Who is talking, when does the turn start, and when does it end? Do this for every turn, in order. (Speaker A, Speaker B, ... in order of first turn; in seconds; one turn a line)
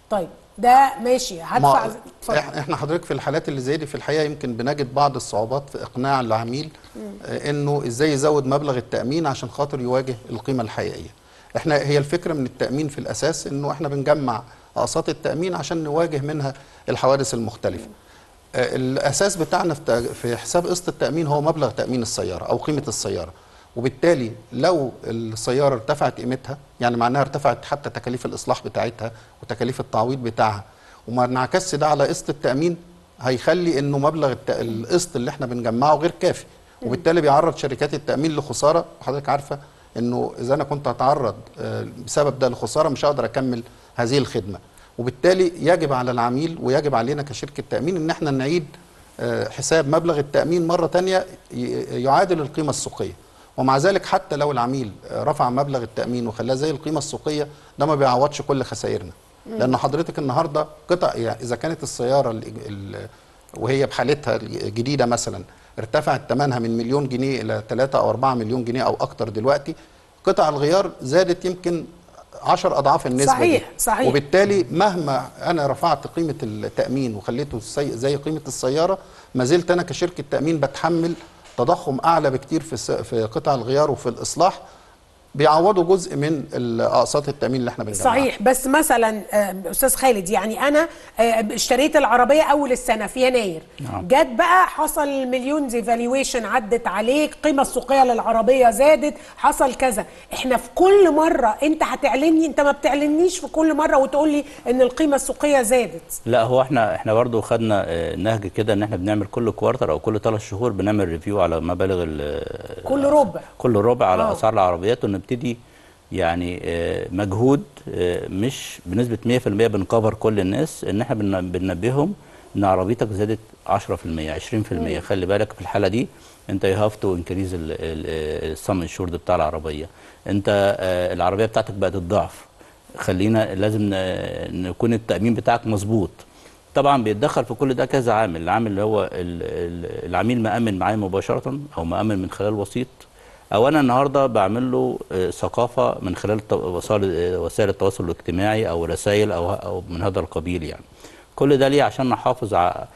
Speaker A: 0.1-2.4
Speaker B: 1.6-6.7
Speaker B: 7.2-17.9
Speaker B: 18.6-48.7
Speaker B: 49.2-63.1
Speaker B: 63.6-71.9
Speaker B: 72.5-84.6
Speaker A: 73.2-74.2
Speaker B: 85.4-88.3
Speaker A: 87.9-106.2
Speaker C: 106.3-115.6
Speaker A: 112.9-113.5
Speaker A: 114.1-114.4
Speaker C: 116.2-132.4
Speaker A: 124.8-125.0
Speaker C: 133.0-136.2
Speaker C: 136.8-143.0
Speaker C: 143.6-150.8
Speaker C: 151.4-152.8